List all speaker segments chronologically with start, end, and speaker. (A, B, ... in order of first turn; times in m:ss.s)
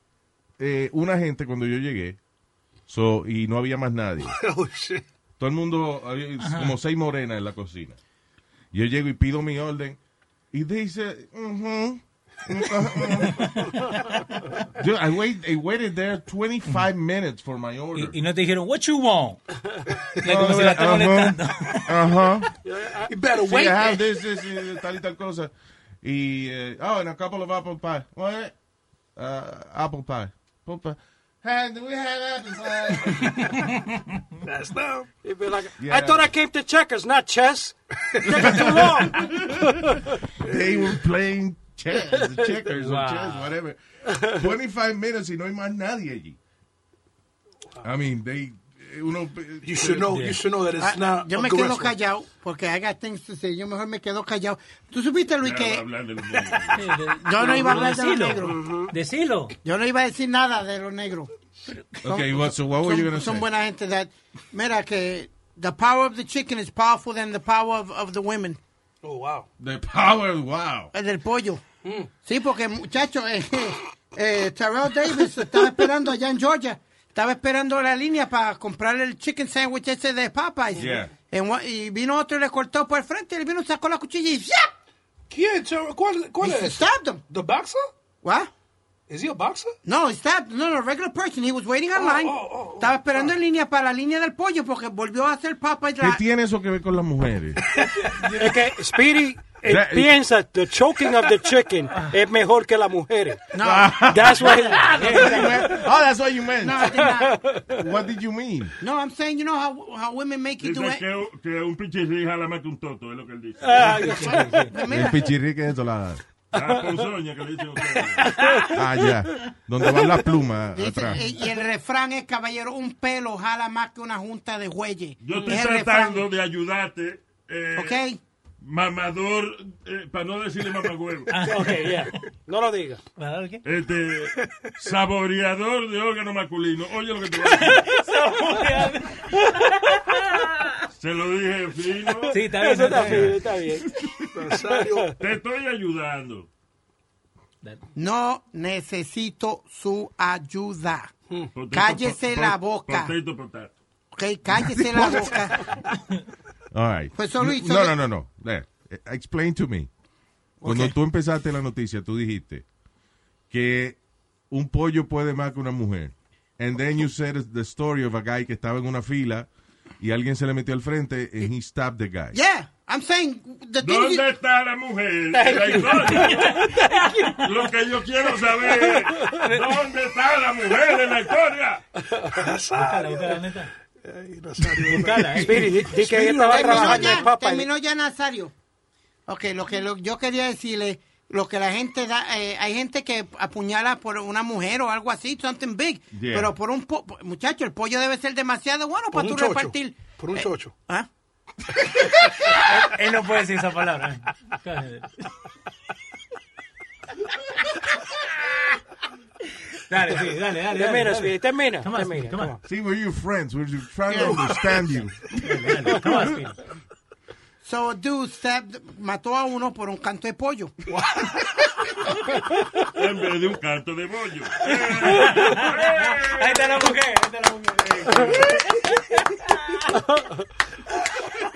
0:00.6-0:02.2 A
0:02.9-0:04.3 A
0:04.3-0:05.0 B
0:05.4-0:08.0 A
0:06.4-0:06.8 C
0:08.7-0:10.0 A
0:10.5-0:13.8 A
0:14.8-0:18.2 A
0:18.0-0:19.4 C
0:20.2-0:22.1 C
0:20.2-0:22.5 A
0:22.6-0:23.1 D
0:23.1-0:24.1 B
0:23.4-0:25.5 A
0:26.0-0:28.5 A
0:29.2-0:33.4 A
0:33.1-0:33.6 B
0:34.4-0:35.1 B
0:35.2-0:40.1 D
0:35.8-0:36.3 A
0:38.1-0:38.8 B
0:38.2-0:39.8 A
0:40.4-0:46.4 A
0:40.5-0:40.9 B
0:42.7-0:43.5 C
0:47.8-0:50.1 A
0:49.6-0:51.9 B
0:50.1-0:50.5 C
0:50.8-0:55.8 E
0:55.4-0:57.0 F
0:56.7-0:59.6 C
0:57.2-0:58.6 E
0:58.4-0:58.9 D
0:59.6-1:01.3 E
1:02.0-1:03.5 A
1:02.1-1:08.6 E
1:09.0-1:09.5 B
1:09.6-1:10.9 A
1:10.9-1:11.6 E
1:11.8-1:12.1 B
1:12.2-1:24.7 E
1:20.8-1:21.1 A
1:25.3-1:27.8 B
1:26.4-1:27.2 E
1:28.2-1:28.5 E
1:29.1-1:29.8 B
1:29.8-1:36.2 E
1:32.0-1:33.3 B
1:36.0-1:37.6 A
1:37.7-1:38.5 B
1:38.3-1:43.4 D
1:39.6-1:40.2 A
1:43.5-1:44.1 E
1:43.6-1:47.0 A
1:44.1-1:45.8 D
1:44.8-1:45.6 C
1:46.6-1:47.4 E
1:47.0-1:47.8 D
1:47.7-1:48.7 A
1:48.8-1:51.0 E
1:50.6-1:54.4 F
1:53.6-1:54.7 D
1:53.8-1:54.7 C
1:54.5-1:55.3 E
1:54.9-1:56.2 A
1:56.5-1:58.6 F
1:58.7-2:01.2 A
2:00.7-2:06.3 E
2:05.2-2:08.0 F
2:07.8-2:08.2 E
2:08.6-2:11.3 F
2:11.3-2:12.1 C
2:11.4-2:13.0 D
2:13.2-2:13.6 C
2:13.6-2:17.9 F
2:17.4-2:20.7 C
2:21.0-2:22.4 F
2:22.3-2:23.4 C
2:22.3-2:23.9 D
2:24.3-2:25.2 B
2:24.7-2:25.1 D
2:25.2-2:26.5 F
2:28.0-2:31.1 E
2:31.5-2:33.7 F
2:31.7-2:33.1 E
2:34.2-2:35.7 E
2:34.5-2:35.3 A
2:36.7-2:39.9 A
2:37.2-2:38.0 E
2:40.6-2:40.9 E
2:40.6-2:42.6 A
2:43.5-2:44.0 A
2:44.5-2:49.5 A
2:50.0-2:52.4 A
2:52.3-2:54.2 E
2:53.8-2:56.8 F
2:55.4-2:56.5 D
2:56.2-2:57.3 C
2:57.4-3:01.8 F
3:02.3-3:03.5 B
3:02.7-3:03.7 C
3:04.0-3:06.7 B
3:04.8-3:05.7 C
3:05.4-3:07.7 D
3:06.1-3:08.5 E
3:09.3-3:21.1 E
3:16.1-3:16.5 A
3:19.1-3:20.7 B
3:22.6-3:25.3 C
3:29.9-3:32.6 C
3:30.7-3:32.6 D
3:32.6-3:36.0 A
3:34.1-3:34.4 E
3:35.4-3:36.6 C
3:37.6-3:40.7 E
3:40.9-3:41.6 B
3:42.9-3:46.9 F
3:44.7-3:50.0 C